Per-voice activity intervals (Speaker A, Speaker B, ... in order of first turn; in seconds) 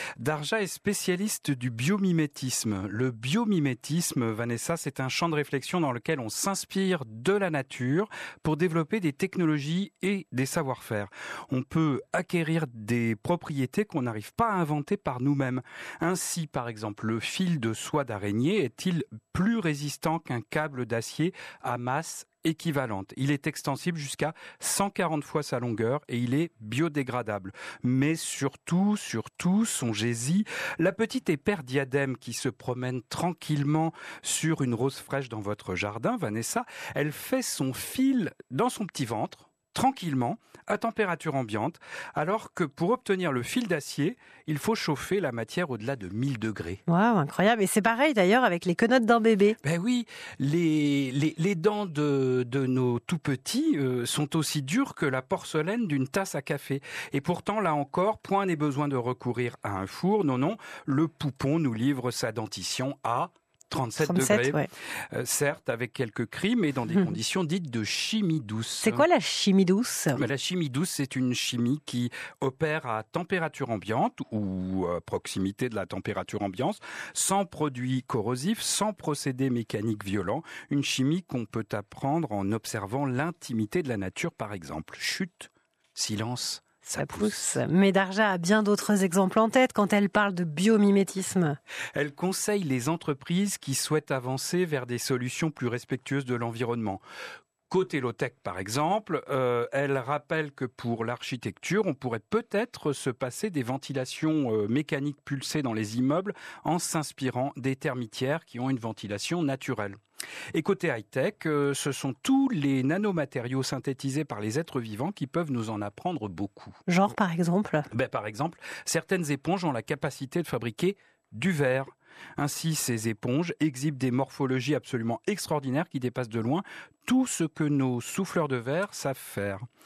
Speaker A: 0.2-46.8, 49.6-64.6, 65.1-69.0, 70.2-87.6, 92.0-97.0, 97.7-110.0, 110.5-116.8, 117.9-129.7
Speaker B: 46.9-49.6, 64.0-64.7, 68.8-70.2, 87.0-91.6, 116.9-117.9